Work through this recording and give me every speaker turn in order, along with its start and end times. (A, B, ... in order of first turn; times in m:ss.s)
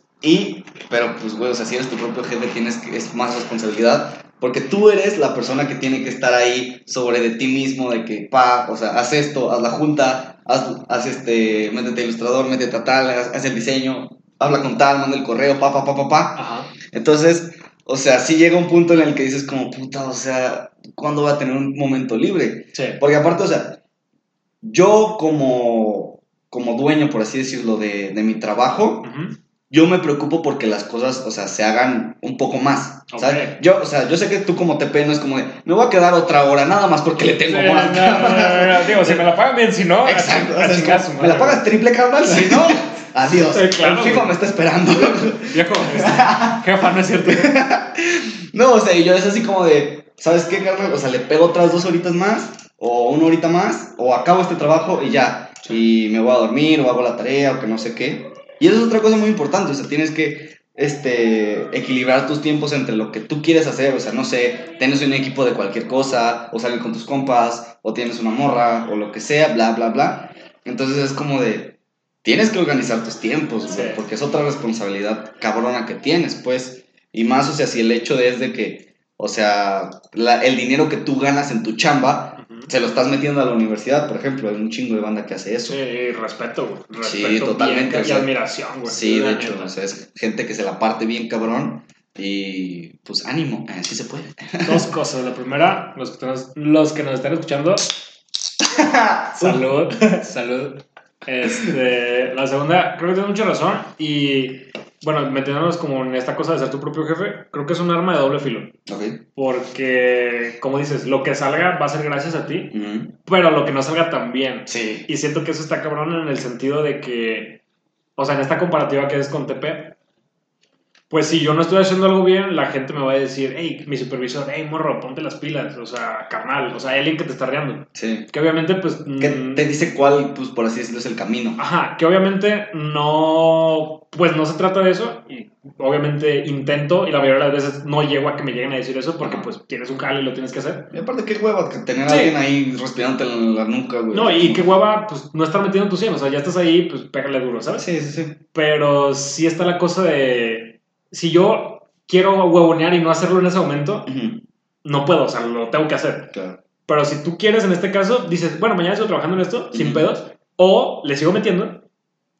0:00.2-0:23.8 A
0:16.4-0:16.7 B
0:22.7-0:23.0 B
0:24.6-0:29.1 A
0:29.0-0:29.4 B
0:29.7-0:39.2 A
0:33.1-0:33.6 B
0:37.3-0:41.7 B
0:40.0-0:46.6 A
0:42.2-0:42.8 B
0:43.4-0:44.4 B
0:45.5-0:47.6 B
0:47.2-1:25.8 A
1:13.7-1:14.0 B
1:22.4-1:22.7 B
1:25.7-1:29.7 B
1:27.0-1:28.3 A
1:28.8-1:34.9 A
1:34.6-1:37.9 B
1:38.6-1:40.2 A
1:39.4-1:48.7 B
1:41.4-1:41.7 A
1:48.9-1:49.2 A
1:49.3-1:57.6 B
1:52.7-1:53.1 A
1:54.7-1:55.1 A
1:58.2-1:59.9 B
2:01.1-2:09.7 B
2:07.9-2:08.3 A
2:09.2-2:11.6 A
2:11.6-2:20.9 B
2:19.2-2:19.5 A
2:20.9-2:24.6 A
2:22.0-2:22.4 B
2:24.1-2:27.9 B
2:27.8-2:28.4 A
2:28.5-2:34.1 B
2:34.0-2:34.4 A
2:34.8-2:36.3 B
2:36.3-2:36.6 A
2:36.9-2:41.8 B
2:39.7-2:40.1 A